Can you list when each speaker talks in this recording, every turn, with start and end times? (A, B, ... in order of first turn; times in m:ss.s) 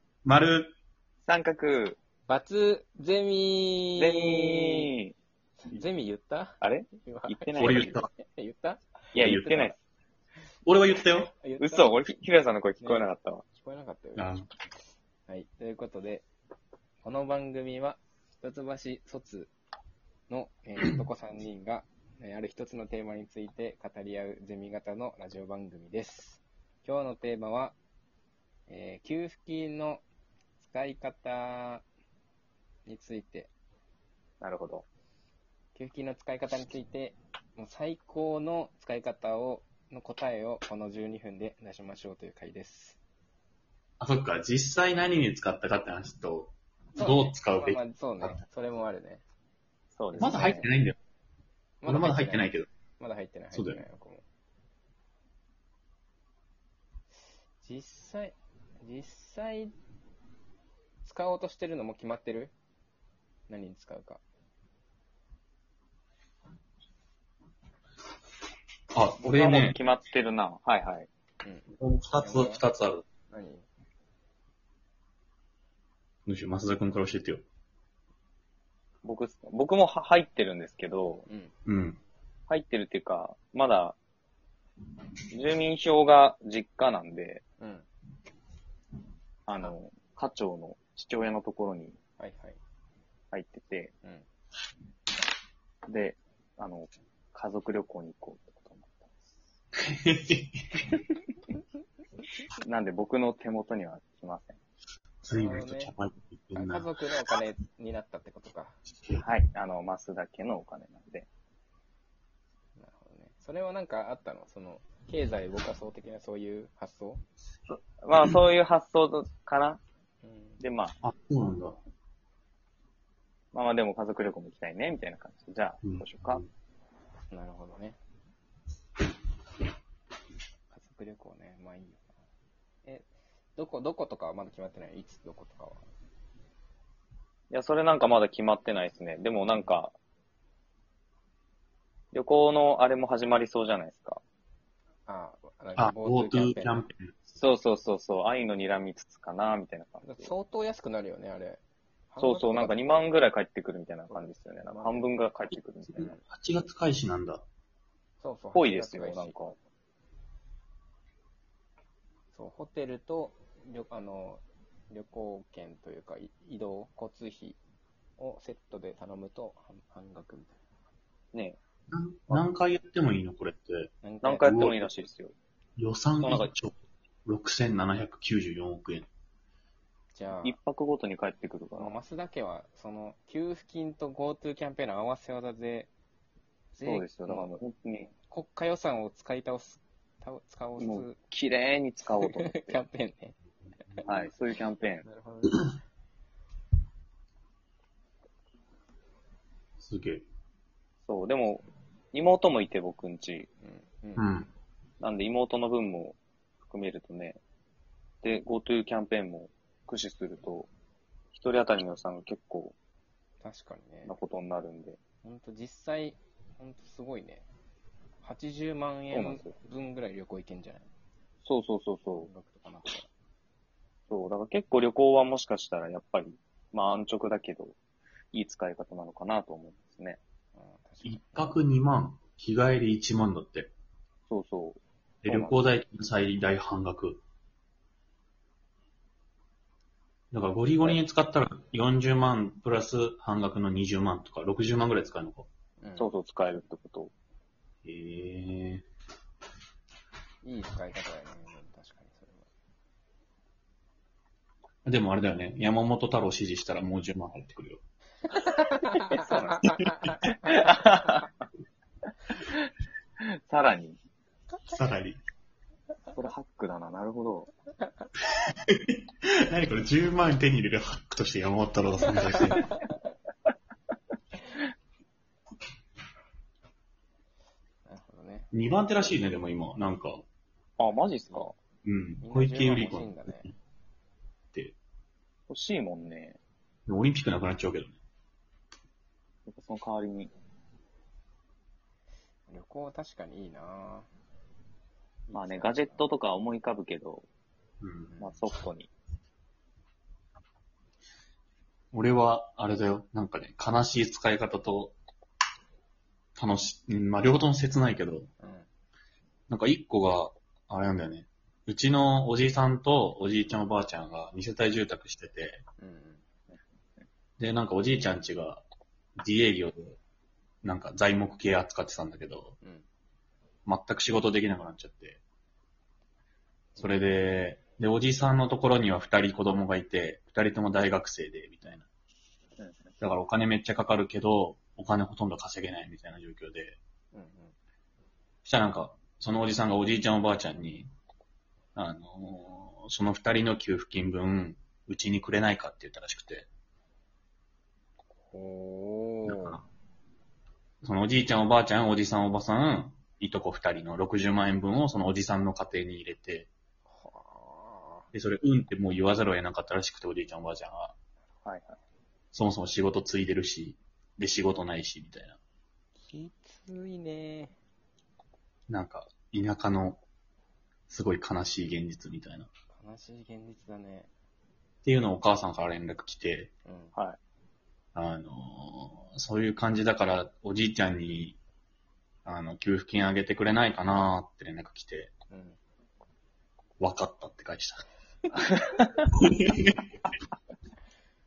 0:00.2-0:00.8 A
0:01.2-0:02.0 B
0:02.3-0:04.9 C
0:04.0-0:05.1 B
0:05.6-0:09.7 C
0:06.6-0:08.0 B
0:07.6-0:08.1 A
0:09.1-0:09.8 B
0:09.2-0:09.7 A
0:10.6-0:11.3 A
0:11.3-0:12.0 C
0:11.6-0:13.4 B
0:12.8-0:14.3 C
0:14.2-0:14.5 A
0:15.3-0:16.2 C
0:17.0-0:19.5 C
0:20.3-0:27.8 C
0:28.7-0:30.0 C
0:30.6-0:31.8 C
0:32.8-0:33.5 C
0:34.4-0:34.8 B
0:35.7-0:43.0 C
0:44.0-0:48.4 A
0:46.9-0:49.2 C
0:50.0-0:50.7 B
0:50.1-0:50.7 C
0:50.2-0:51.0 A
0:51.8-0:54.2 C
0:51.8-0:52.7 A
0:53.5-0:53.8 A
0:57.6-0:59.7 C
1:01.0-1:02.5 C
1:03.5-1:04.2 C
1:08.9-1:09.8 A
1:09.2-1:11.1 B
1:11.4-1:12.6 C
1:11.8-1:13.0 A
1:13.3-1:13.6 C
1:16.2-1:17.4 A
1:19.0-1:21.3 B
1:21.3-1:21.5 C
1:21.6-1:22.0 A
1:22.5-1:24.0 B
1:25.3-1:27.4 B
1:27.6-1:27.9 C
1:29.5-1:32.0 B
1:32.2-1:32.6 C
1:33.3-1:33.9 B
1:35.9-1:39.1 B
1:39.8-1:40.8 A
1:42.6-1:44.6 B
1:45.2-1:46.9 A
1:45.3-1:45.9 C
1:46.5-1:48.8 C
1:49.0-1:49.2 A
1:49.2-1:51.3 B
1:52.8-1:57.2 C
1:57.7-1:59.8 B
2:00.2-2:00.6 C
2:00.6-2:01.0 B
2:01.0-2:01.8 A
2:03.5-2:06.4 B
2:05.8-2:06.5 A
2:07.3-2:08.0 C
2:10.7-2:12.1 C
2:12.8-2:15.8 C
2:17.5-2:20.0 B
2:22.1-2:24.2 B
2:25.1-2:26.8 C
2:25.8-2:27.3 A
2:27.4-2:30.3 B
2:30.0-2:33.1 C
2:32.2-2:36.1 B
2:34.1-2:35.1 C
2:35.9-2:37.4 A
2:38.2-2:39.4 C
2:38.5-2:39.6 B
2:42.3-2:47.6 C
2:48.2-2:50.6 C
2:51.9-2:54.8 A
2:54.0-2:54.6 C
2:54.2-2:55.3 B
2:55.8-2:59.1 A
2:56.2-2:56.5 B
3:00.1-3:00.6 C
3:00.4-3:02.0 B
3:01.8-3:05.9 C
3:06.7-3:07.6 C
3:06.8-3:08.1 B
3:08.3-3:11.2 C
3:10.8-3:12.8 B
3:12.2-3:13.4 C
3:14.0-3:15.0 B
3:15.0-3:15.7 C
3:19.8-3:20.2 A
3:21.0-3:23.5 B
3:23.6-3:24.3 C
3:24.2-3:24.5 A
3:25.0-3:27.4 B
3:28.2-3:30.7 B
3:31.3-3:32.7 B
3:33.4-3:34.2 C
3:34.0-3:35.0 B
3:35.2-3:37.4 C
3:38.2-3:40.9 C
3:39.1-3:39.5 B
3:41.4-3:42.3 B
3:42.2-3:43.1 C
3:44.1-3:47.8 B
3:48.3-3:50.2 B
3:50.5-3:51.6 C
3:51.0-3:53.7 A
3:54.3-3:55.6 B
3:55.2-3:57.2 A
4:00.3-4:05.5 A
4:05.8-4:06.1 C
4:06.0-4:07.1 B
4:07.8-4:08.8 A
4:10.4-4:12.5 C
4:14.8-4:17.8 A
4:18.5-4:20.2 C
4:18.6-4:21.3 B
4:19.6-4:20.1 A
4:22.3-4:22.7 B
4:23.2-4:24.0 B
4:24.7-4:25.2 A
4:26.1-4:27.5 B
4:28.5-4:32.7 A
4:32.2-4:33.0 C
4:37.8-4:38.5 C
4:38.5-4:40.2 A
4:40.8-4:41.5 B
4:41.3-4:41.5 C
4:41.8-4:43.5 A
4:42.2-4:43.5 C
4:45.5-4:46.4 B
4:46.9-4:48.0 A
4:49.5-4:50.3 B
4:52.5-4:54.1 C
4:55.3-4:56.0 C
4:55.3-4:57.3 B
4:57.8-4:58.2 A
4:58.1-4:58.4 C
4:58.2-4:58.9 B
5:01.9-5:05.0 A
5:06.4-5:08.3 A
5:08.4-5:08.7 C
5:09.5-5:15.6 A
5:15.8-5:16.2 C
5:17.4-5:18.6 A
5:19.2-5:20.0 A
5:20.6-5:22.5 A
5:23.6-5:25.2 A
5:26.7-5:27.1 C
5:26.8-5:31.8 A
5:32.6-5:32.9 B
5:33.0-5:36.8 A
5:37.1-5:37.6 C
5:38.4-5:40.9 A
5:41.8-5:46.5 A
5:48.3-5:49.6 C
5:49.2-5:49.6 A
5:50.8-5:56.5 A
5:56.9-5:58.1 C
5:58.1-6:00.9 A
6:01.4-6:01.8 B
6:02.3-6:05.4 A
6:06.0-6:07.6 C
6:08.7-6:10.0 A
6:10.9-6:12.5 A
6:12.7-6:14.1 C
6:14.8-6:16.5 A
6:16.6-6:16.9 C
6:17.9-6:21.4 A
6:22.2-6:25.1 A
6:25.3-6:25.6 C
6:26.8-6:27.8 A
6:29.1-6:29.8 A